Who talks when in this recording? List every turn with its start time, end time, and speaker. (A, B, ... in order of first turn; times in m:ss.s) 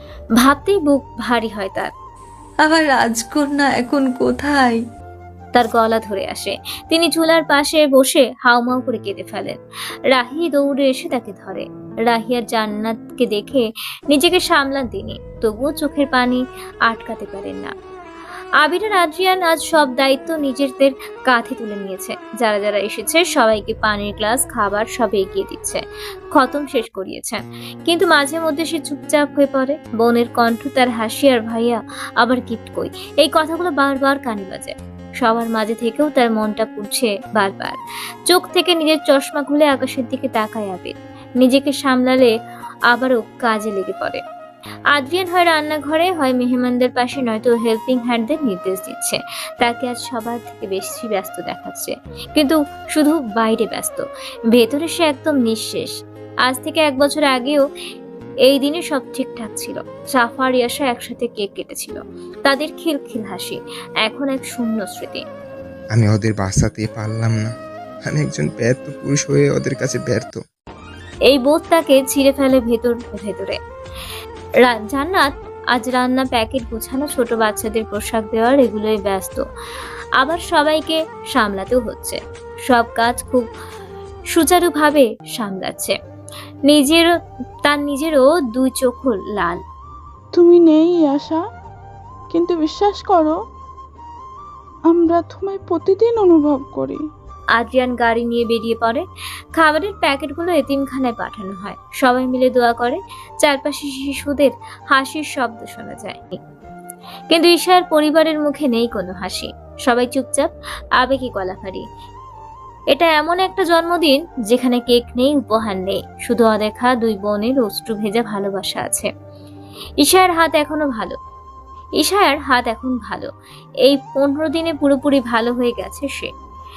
0:00.4-0:01.9 A
0:02.6-0:04.8 B
0:05.5-0:09.6 A
0:10.1-0:17.7 A
0:18.6-0:25.8 A
0:26.3-0:42.3 A
0:42.9-0:44.2 A
0:44.9-0:55.9 A
0:56.4-0:57.6 A
0:58.4-1:05.2 A
1:05.9-1:07.5 C
1:08.0-1:10.4 C
1:11.3-1:13.6 A
1:14.6-1:19.4 A
1:20.2-1:23.5 A
1:24.3-1:26.0 A
1:26.7-1:27.1 A
1:27.6-1:29.6 A
1:30.3-1:31.4 D
1:32.3-1:33.4 D
1:34.9-1:37.0 D
1:37.5-1:46.4 A
1:47.3-1:51.8 A
1:52.9-1:59.1 A
2:00.0-2:01.2 A
2:02.0-2:03.3 A
2:03.8-2:06.3 A